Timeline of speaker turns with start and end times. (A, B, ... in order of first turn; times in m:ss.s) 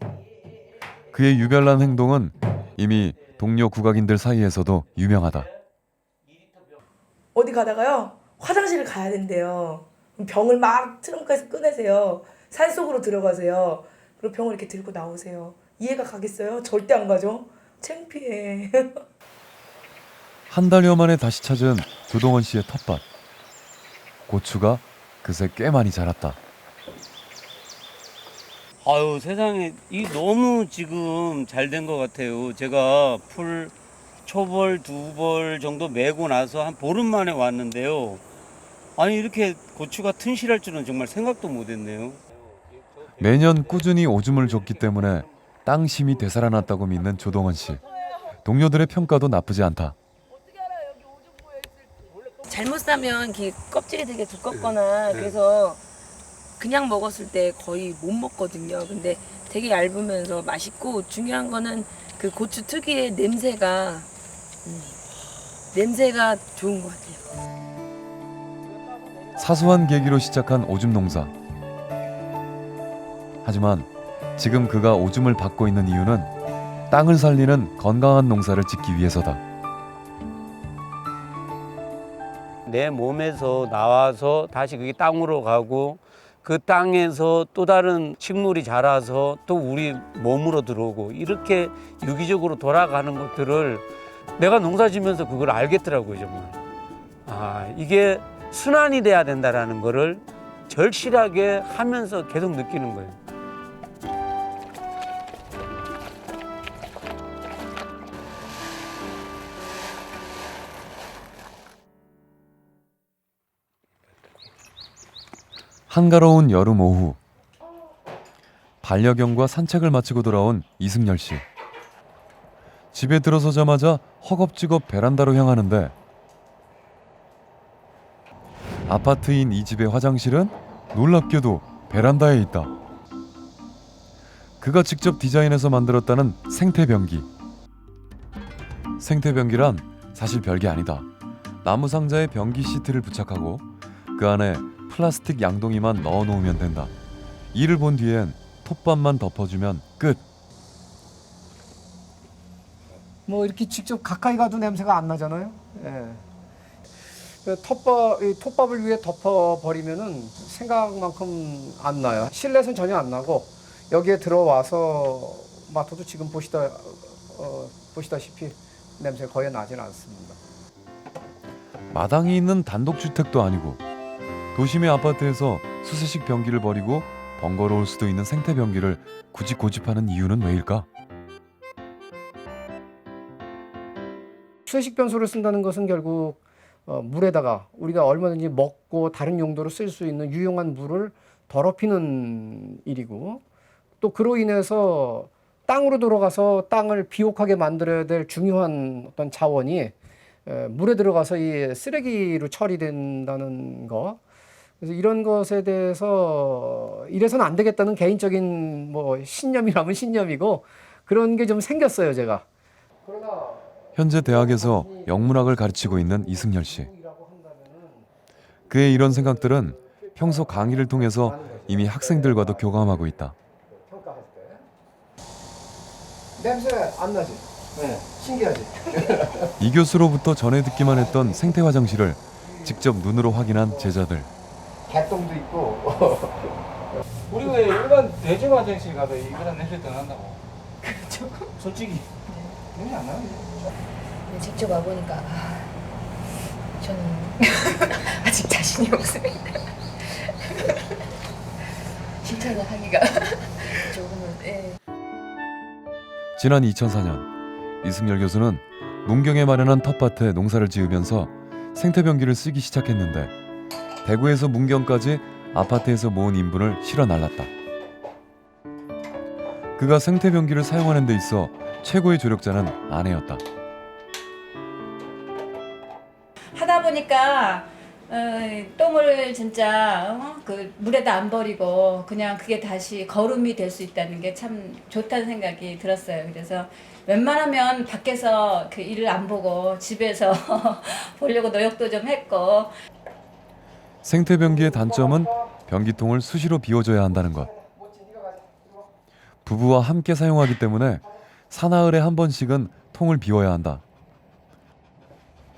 0:01.1-0:05.5 A
0:07.3-0:19.0 B
0:20.5-0:23.0 A
0:24.3-0:26.4 A
0:28.8-0:33.7 C
0:34.2-0:38.2 C
0:39.0-0:42.2 C
0:43.2-0:47.8 A
0:48.4-0:50.0 A
0:52.4-0:55.8 D
0:54.5-0:55.3 C
0:56.6-1:04.1 D
1:04.6-1:05.0 D
1:05.7-1:07.3 D
1:09.4-1:11.3 A
1:13.4-1:16.3 A
1:16.9-1:19.4 A
1:22.7-1:33.8 C
1:34.4-1:36.6 C
1:37.3-1:43.2 C
1:55.9-1:57.2 A
1:58.8-2:01.4 A
2:02.9-2:05.9 A
2:08.9-2:12.7 A
2:14.6-2:17.3 A
2:19.0-2:21.1 A
2:21.6-2:26.9 A
2:27.5-2:30.2 A
2:33.3-2:36.2 E
2:37.4-2:50.4 E
2:51.9-2:53.8 A
2:54.6-3:00.9 A
3:04.7-3:13.4 E
3:14.0-3:19.9 E
3:20.5-3:24.2 E
3:24.8-3:32.4 E
3:33.0-3:38.1 E
3:34.0-3:36.9 A
3:38.7-3:43.4 A
3:38.7-3:43.1 E
3:43.7-3:44.6 E
3:46.4-3:49.6 E
3:49.6-3:54.3 A
3:50.9-3:51.6 E
3:52.4-3:52.8 E
3:53.6-3:53.9 E
3:54.9-3:56.5 E
3:57.3-4:00.4 F
4:00.8-4:01.5 G
4:01.6-4:02.1 F
4:02.3-4:02.6 G
4:02.8-4:03.2 E
4:03.0-4:03.4 F
4:04.3-4:05.7 G
4:06.8-4:10.7 G
4:12.2-4:14.8 G
4:16.4-4:17.3 A
4:17.8-4:23.3 A
4:24.0-4:27.5 A
4:29.8-4:33.4 A
4:36.5-4:52.7 H
4:54.0-4:57.5 A
4:57.6-4:58.7 E
4:59.4-5:03.8 A